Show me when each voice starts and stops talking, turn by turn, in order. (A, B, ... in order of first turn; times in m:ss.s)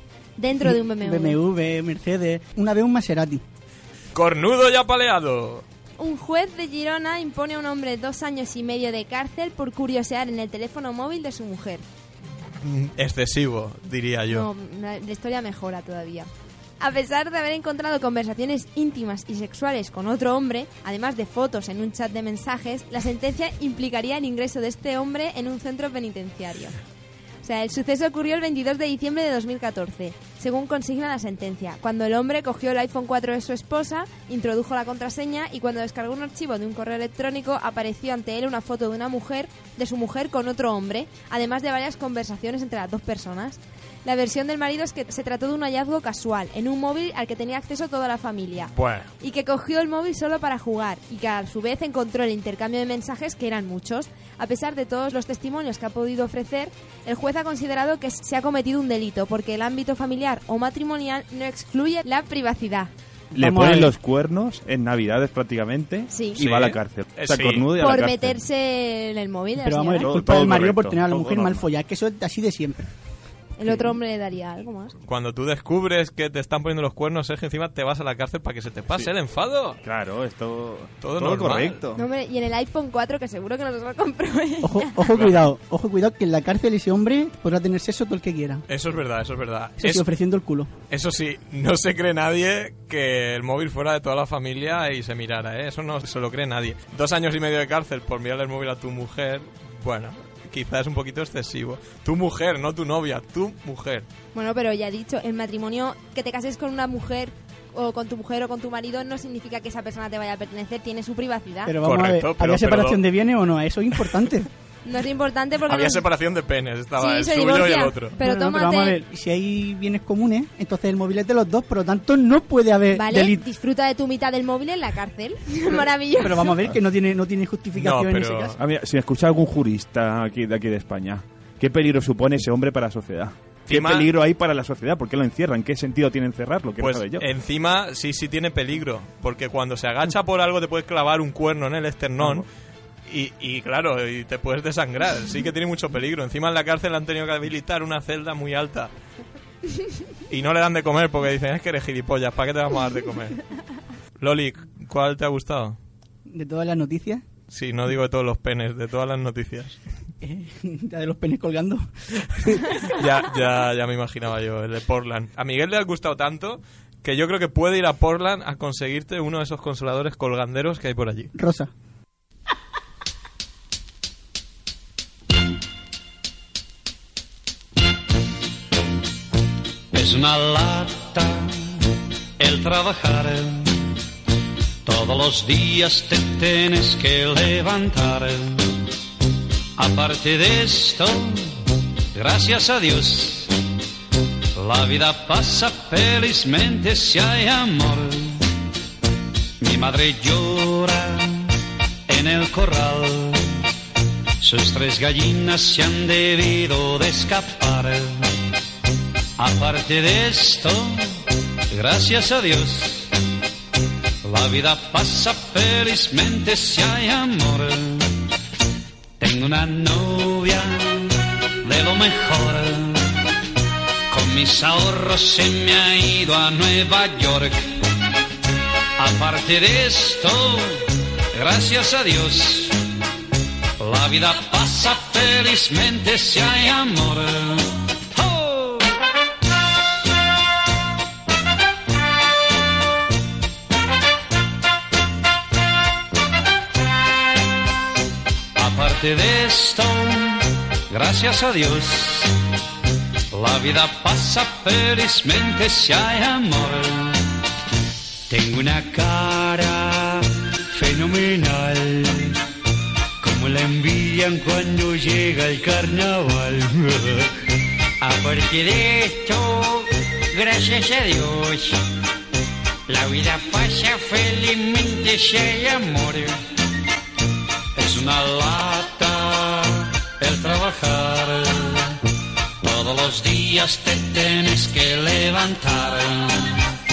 0:00.4-0:01.4 A
0:00.6-0:03.4 B
0:04.1-0:05.6 C
0:06.0-0:11.8 A
0:12.6-0:14.5 C
0:14.3-0:16.3 A
0:16.8-0:26.8 A
0:27.4-1:02.9 A
0:48.7-0:49.1 C
1:03.4-1:03.9 B
1:03.4-1:08.4 D
1:06.1-1:06.4 A
1:06.4-1:07.7 C
1:07.8-1:10.1 A
1:09.6-1:12.9 B
1:10.0-1:11.7 D
1:13.6-1:15.0 A
1:15.1-1:19.8 C
1:19.8-1:22.0 D
1:21.0-1:21.8 C
1:22.0-1:24.9 A
1:24.6-1:28.6 B
1:25.1-1:25.4 C
1:28.7-1:30.0 C
1:29.8-1:30.7 B
1:30.9-1:44.1 C
1:44.4-1:51.7 A
1:51.6-1:54.5 B
1:51.8-1:53.0 C
1:54.8-1:56.0 A
1:55.7-1:58.2 C
1:57.0-1:59.0 A
1:58.2-2:03.4 B
2:02.9-2:06.5 A
2:06.2-2:08.6 B
2:07.8-2:08.6 C
2:08.6-2:17.3 D
2:13.7-2:14.1 C
2:16.8-2:22.4 C
2:22.2-2:22.4 D
2:23.1-2:28.9 C
2:30.3-2:33.4 C
2:34.2-2:35.8 C
2:36.3-2:37.2 B
2:37.5-2:39.8 C
2:40.2-2:41.9 B
2:42.4-2:42.7 B
2:42.8-2:51.3 C
2:51.4-2:51.7 B
2:59.9-3:01.8 E
3:02.4-3:03.9 E
3:04.8-3:08.7 E
3:09.8-3:11.6 E
3:12.1-3:13.5 E
3:14.6-3:18.5 E
3:19.6-3:21.6 E
3:22.1-3:23.6 E
3:24.4-3:28.3 E
3:29.4-3:33.1 E
3:34.2-3:38.2 E
3:39.2-3:43.3 E
3:44.1-3:47.8 E
3:49.0-3:52.8 E
3:53.8-3:58.9 E
4:08.6-4:12.4 E
4:13.3-4:17.3 E
4:18.3-4:22.4 E
4:23.2-4:27.3 E
4:28.0-4:31.8 E
4:32.9-4:36.4 E
4:37.8-4:42.0 E
4:42.6-4:46.7 E